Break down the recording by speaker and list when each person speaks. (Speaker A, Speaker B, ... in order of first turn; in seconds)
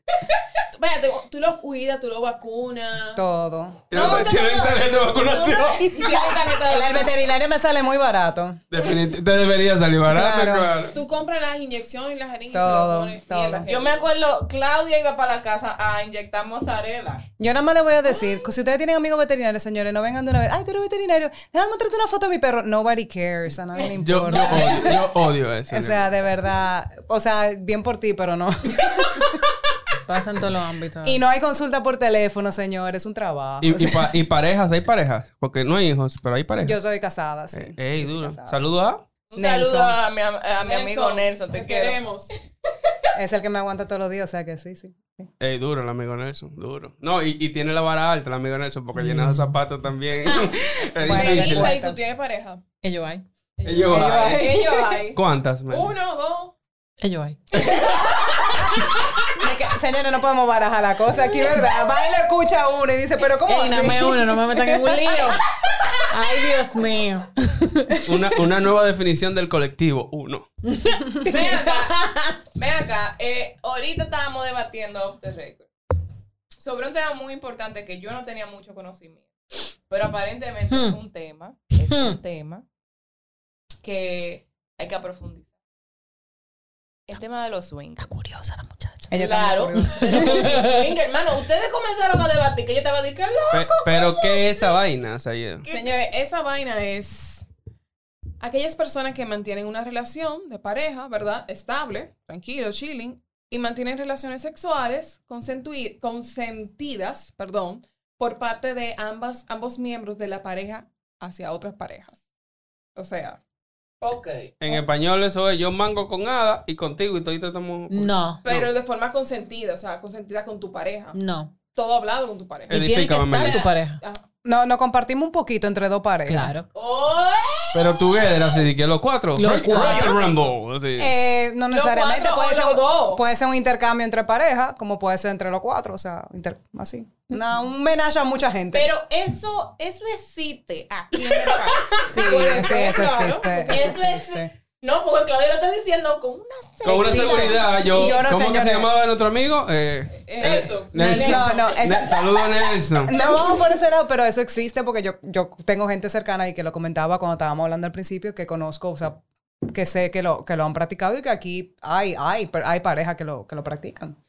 Speaker A: 0.7-3.2, 3.9-7.1, 10.9-14.1, 40.6-42.3, 51.1-52.6, 53.6-56.5, 95.7-97.5, 98.4-112.2, 113.0-113.4, 118.4-121.2, 121.7-124.2, 131.7-133.2, 141.1-144.0, 150.3-151.7
Speaker B: 3.1-3.9, 6.7-8.6, 10.1-10.7, 12.5-13.7, 17.4-29.5, 31.0-34.2, 36.6-38.6, 39.3-40.0, 43.1-45.3, 51.0-52.0, 53.9-55.0, 58.8-65.1, 89.1-90.5, 124.4-126.5, 131.0-138.9, 142.1-144.5, 147.1-148.9, 150.9-152.2, 153.0-164.2
Speaker C: 3.9-6.1, 8.7-10.9, 24.0-26.1, 33.6-36.8, 37.5-39.0, 45.4-51.8, 53.6-54.5, 55.1-55.9, 57.5-58.5, 68.0-70.5, 93.5-95.7, 114.6-118.7, 122.7-123.7, 127.7-131.1, 146.8-153.1
Speaker D: 3.9-6.4, 13.7-17.2, 39.3-42.0, 71.2-75.7, 76.6-79.3, 79.9-82.6, 83.8-85.5, 87.1-88.1, 89.1-94.8, 95.6-95.9, 114.0-114.5, 126.7-128.6, 129.7-130.4, 138.7-142.4, 143.7-148.2, 150.3-151.8
Speaker E: 30.1-31.2, 49.0-49.5, 52.8-53.2, 57.0-57.4, 63.5-65.4, 66.1-68.0, 70.7-72.2, 80.7-81.0, 81.9-82.2, 88.0-89.1, 89.8-90.8, 117.9-118.4, 121.1-121.5, 122.7-124.0, 126.3-126.7, 129.3-130.2, 142.1-142.7